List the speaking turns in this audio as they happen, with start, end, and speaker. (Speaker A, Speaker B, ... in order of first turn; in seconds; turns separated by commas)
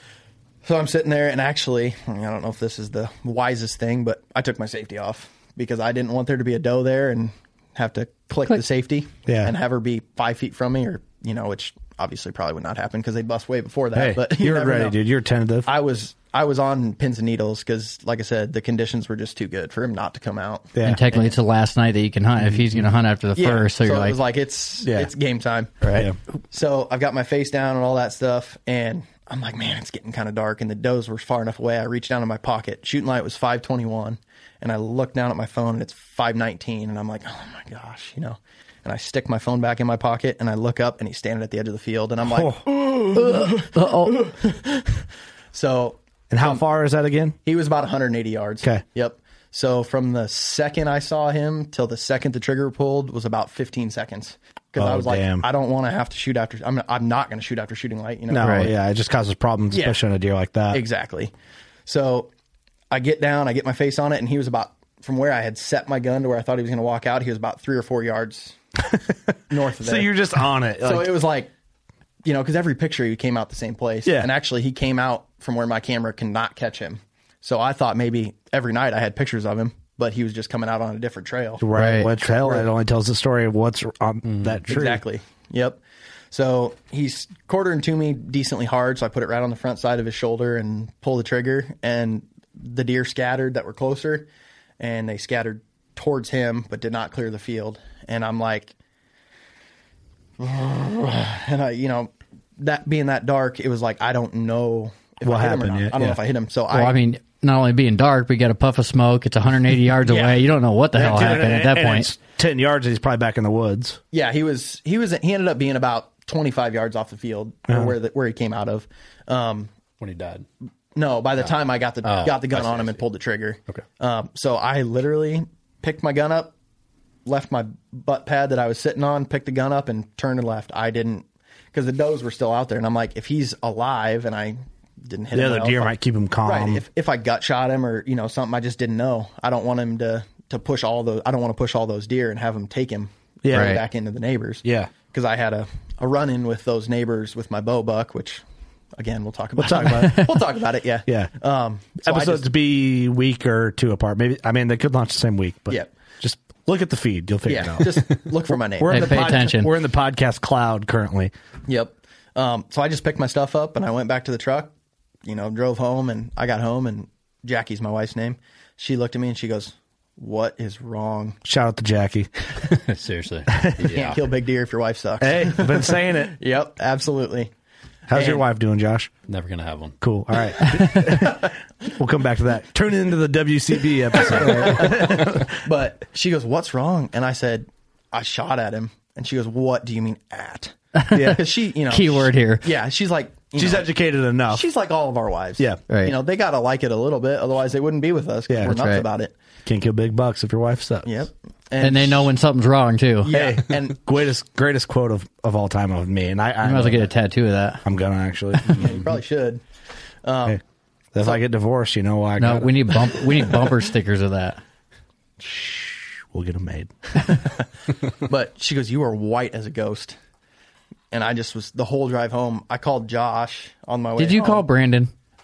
Speaker A: 0.6-14.9, Speaker B: 9.3-9.5, Speaker B: 13.9-15.7, Speaker A: 15.7-21.4, Speaker B: 20.7-21.0, Speaker C: 20.8-24.1, Speaker A: 23.3-25.8, Speaker B: 24.8-25.1, Speaker C: 25.8-26.1, Speaker A: 26.5-46.6, Speaker B: 42.2-42.6, Speaker C: 43.1-44.2, Speaker B: 46.3-47.4, Speaker A: 47.4-58.7, Speaker B: 54.8-55.4, Speaker B: 58.3-60.8, Speaker C: 58.4-58.7, Speaker A: 59.7-60.0, Speaker A: 60.7-61.3, Speaker A: 61.9-62.3, Speaker A: 62.9-68.5, Speaker A: 69.5-70.1, Speaker B: 69.8-71.1, Speaker A: 70.8-71.5, Speaker A: 72.2-81.6, Speaker B: 81.6-85.0, Speaker C: 81.7-82.1, Speaker A: 82.2-82.7, Speaker A: 84.7-85.8, Speaker A: 86.3-94.3, Speaker A: 94.8-98.7, Speaker A: 100.4-107.0, Speaker B: 105.2-106.2, Speaker C: 106.7-112.1, Speaker A: 110.0-110.4, Speaker B: 110.9-114.0, Speaker A: 114.1-119.7, Speaker D: 120.0-120.5, Speaker A: 120.9-126.5, Speaker D: 122.0-123.0, Speaker A: 127.2-135.9, Speaker B: 135.3-136.8, Speaker A: 136.4-148.4, Speaker B: 143.4-143.8, Speaker C: 143.5-143.8, Speaker B: 144.6-144.9, Speaker A: 149.0-152.5, Speaker B: 149.6-150.3, Speaker B: 151.1-151.3, Speaker B: 152.0-158.2, Speaker A: 157.5-159.5, Speaker B: 158.8-161.3, Speaker C: 158.9-159.7, Speaker A: 161.7-164.7, Speaker A: 165.2-171.4, Speaker B: 171.4-172.3, Speaker D: 172.7-174.2, Speaker B: 173.5-173.8, Speaker A: 173.9-177.5, Speaker B: 175.2-176.4, Speaker B: 178.1-179.1, Speaker A: 178.1-178.4, Speaker D: 179.3-180.0, Speaker B: 180.0-185.6, Speaker A: 181.1-181.5, Speaker A: 184.2-193.9, Speaker C: 190.9-192.7, Speaker B: 191.1-191.4, Speaker B: 193.6-194.6, Speaker A: 194.5-199.3, Speaker C: 195.9-196.2, Speaker B: 198.5-198.7, Speaker C: 198.6-199.1, Speaker B: 199.7-201.1, Speaker A: 201.0-202.3, Speaker C: 201.8-203.3, Speaker A: 203.2-204.0, Speaker B: 203.3-207.1, Speaker C: 206.6-207.8, Speaker B: 207.8-209.0, Speaker A: 208.7-209.6, Speaker A: 210.2-210.6, Speaker B: 211.1-213.2, Speaker C: 212.4-214.6, Speaker B: 215.4-216.9, Speaker A: 217.3-217.6, Speaker A: 218.2-220.2, Speaker A: 221.1-224.6, Speaker C: 224.2-225.1